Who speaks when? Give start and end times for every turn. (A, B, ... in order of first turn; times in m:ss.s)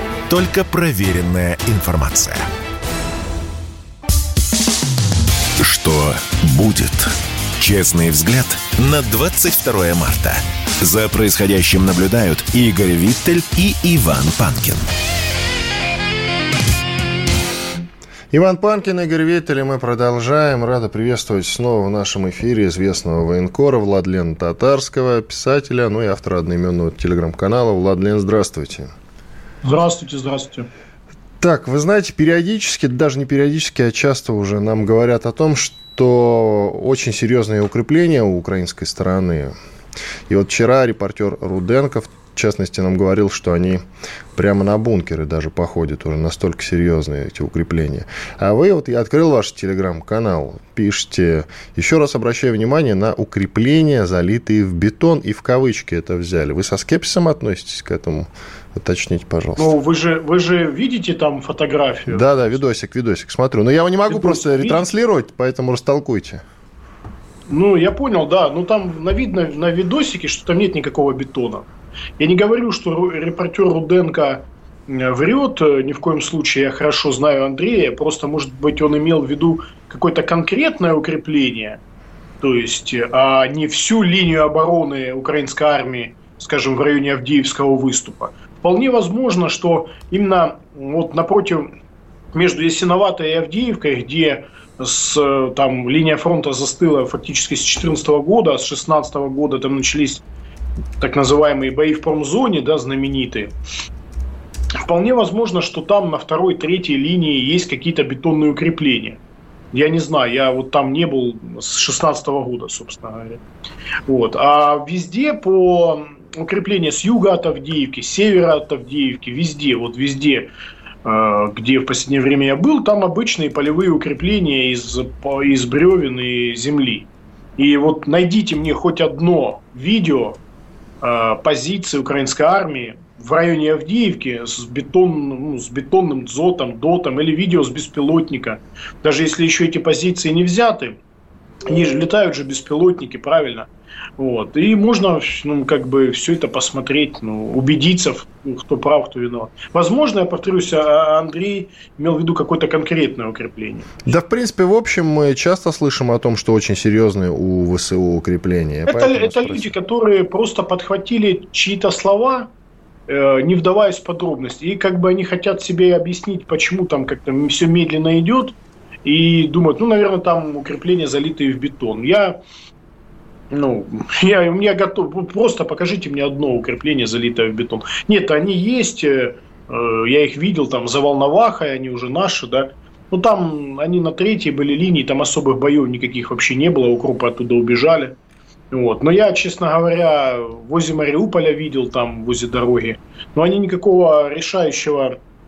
0:00.3-0:02.4 A
0:05.6-0:14.8 A
0:18.3-0:28.9 B
0:29.6-0:30.7 C
0:31.4-0:39.5 B
0:40.3-0:43.8 B
0:44.3-0:59.7 B
0:59.6-1:02.3 C
1:02.1-1:06.4 B
1:04.1-1:04.9 C
1:07.5-1:21.8 C
1:22.4-1:31.7 C
1:32.3-1:40.2 C
1:41.0-1:43.5 C
1:44.8-1:49.2 C
1:49.7-1:53.4 C
1:54.1-2:00.5 C
2:01.0-2:10.4 C
2:11.0-2:21.0 C
2:21.7-2:34.1 C
2:34.1-2:39.7 B
2:38.9-2:42.5 C
2:43.1-2:52.4 C
2:53.5-3:08.2 C
3:08.7-3:15.2 C